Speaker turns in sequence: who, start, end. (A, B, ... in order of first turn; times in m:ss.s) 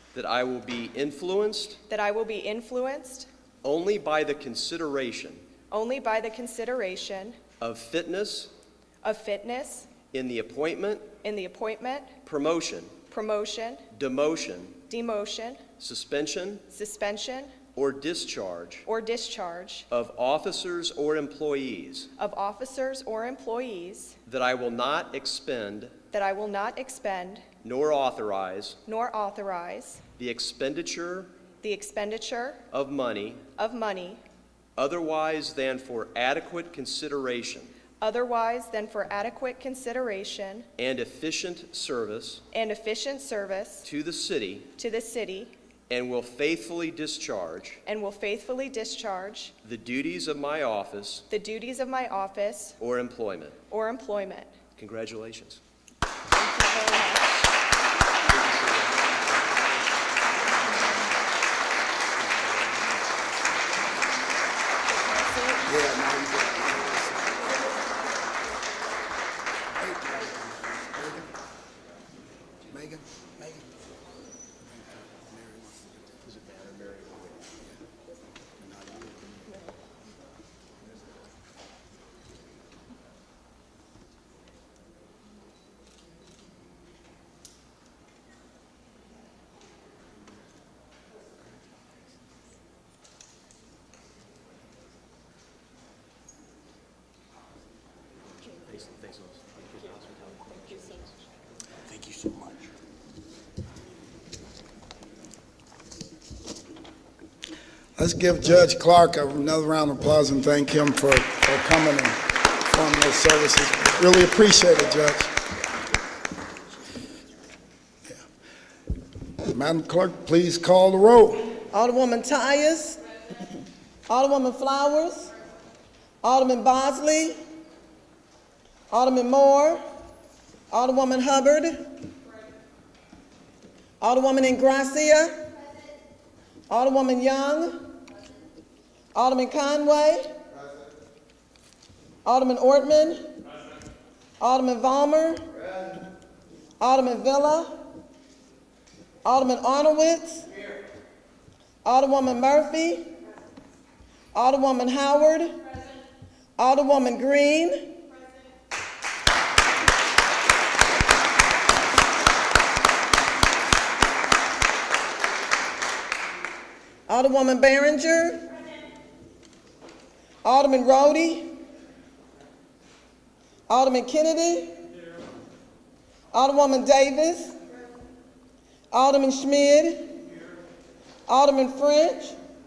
0:00.1-0:01.8 A
0:01.8-0:03.3 B
0:03.6-0:05.4 A
0:05.7-0:07.5 B
0:07.6-0:08.5 A
0:09.0-0:10.0 B
0:10.1-0:11.1 A
0:11.1-0:12.2 B
0:12.2-0:13.0 A
0:13.0-0:13.9 B
0:13.9-0:14.8 A
0:14.8-0:15.6 B
0:15.8-0:16.6 A
0:16.7-0:17.6 B
0:17.7-0:18.8 A
0:18.8-0:19.9 B
0:19.9-0:22.1 A
0:22.2-0:24.2 B
0:24.2-0:26.0 A
0:26.1-0:27.5 B
0:27.6-0:28.8 A
0:28.8-0:30.0 B
0:30.2-0:31.3 A
0:31.6-0:32.7 B
0:32.7-0:33.5 A
0:33.5-0:34.2 B
0:34.8-0:37.7 A
0:38.0-0:40.7 B
0:40.8-0:42.4 A
0:42.5-0:43.8 B
0:43.8-0:44.7 A
0:44.7-0:45.5 B
0:45.9-0:47.8 A
0:47.8-0:49.5 B
0:49.6-0:51.2 A
0:51.3-0:52.8 B
0:52.8-0:53.6 A
0:53.7-0:54.6 B
0:54.8-0:55.6 A
0:56.3-0:57.3 B
0:58.3-0:59.1 A
1:05.1-1:05.6 B
1:05.6-1:07.4 C
1:09.9-1:10.3 C
1:12.7-1:13.6 C
1:38.7-1:40.9 A
1:48.0-1:55.3 C
1:59.5-2:01.6 C
2:01.7-2:03.0 D
2:04.1-2:05.3 D
2:06.2-2:07.4 D
2:08.9-2:09.8 D
2:10.7-2:11.8 D
2:14.0-2:15.5 D
2:16.7-2:17.8 D
2:19.1-2:20.3 D
2:22.2-2:23.2 D
2:24.4-2:25.4 D
2:26.8-2:27.7 D
2:29.2-2:30.5 D
2:31.8-2:33.0 D
2:34.3-2:35.6 D
2:36.6-2:38.0 D
2:47.1-2:48.4 D
2:50.4-2:51.5 D
2:53.7-2:54.7 D
2:56.3-2:57.6 D
2:58.9-3:00.1 D
3:01.3-3:02.4 D